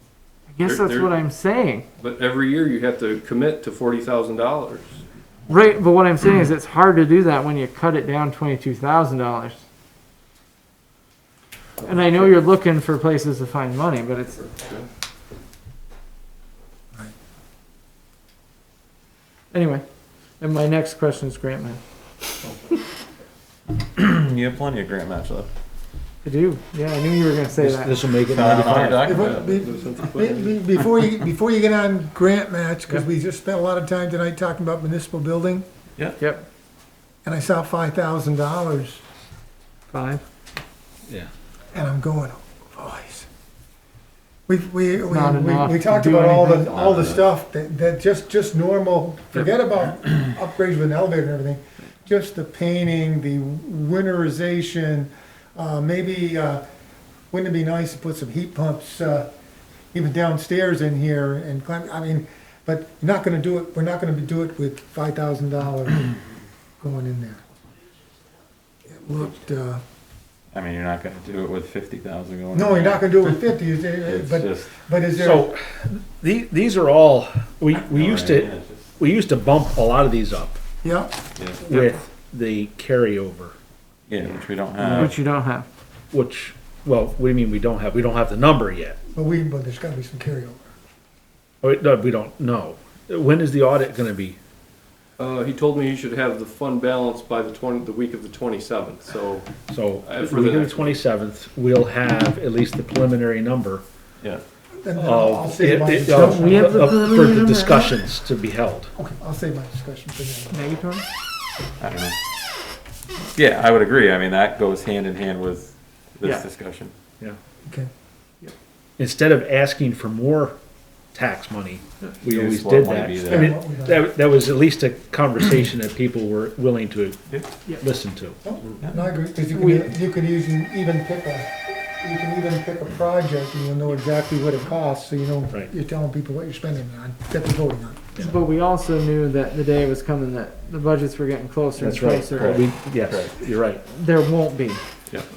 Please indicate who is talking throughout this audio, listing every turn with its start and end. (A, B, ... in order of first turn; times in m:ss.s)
0:00.5-0:01.9 A
0:00.6-0:01.2 B
0:02.0-0:05.0 B
0:05.5-0:09.6 A
0:11.8-0:14.6 A
0:19.5-0:19.8 A
0:20.4-0:21.8 A
0:24.0-0:25.5 C
0:26.2-0:28.0 A
0:27.6-0:29.2 D
0:28.3-0:29.5 C
0:29.0-0:35.7 E
0:29.2-0:30.6 B
0:36.2-0:36.5 A
0:37.2-0:39.0 E
0:39.9-0:40.2 A
0:41.7-0:43.3 E
0:44.5-0:56.6 E
0:45.0-0:46.7 A
0:46.7-0:47.2 C
0:57.3-0:59.3 E
0:59.9-1:06.2 E
1:06.8-1:07.4 E
1:08.9-1:09.8 E
1:10.5-1:13.4 C
1:12.5-1:15.5 E
1:14.0-1:14.8 C
1:15.2-1:20.6 D
1:17.8-1:18.9 C
1:20.8-1:21.1 E
1:21.4-1:21.7 C
1:21.6-1:23.6 D
1:24.1-1:25.2 C
1:24.8-1:25.2 D
1:24.9-1:25.7 A
1:26.1-1:29.0 D
1:29.1-1:30.7 E
1:31.6-1:34.4 D
1:35.2-1:39.5 B
1:39.7-1:43.8 D
1:40.0-1:41.0 B
1:44.8-1:46.8 E
1:45.0-1:48.9 D
1:46.1-1:48.0 A
1:49.0-1:50.6 E
1:50.5-1:51.0 A
1:51.8-1:52.2 C
1:53.3-1:56.9 C
1:59.0-2:00.6 D
2:01.1-2:08.4 D
2:02.2-2:03.6 C
2:03.3-2:04.0 E
2:08.4-2:18.1 E
2:09.4-2:09.9 A
2:18.2-2:22.7 A
2:21.8-2:23.8 D
2:22.3-2:23.4 C
2:23.8-2:24.8 A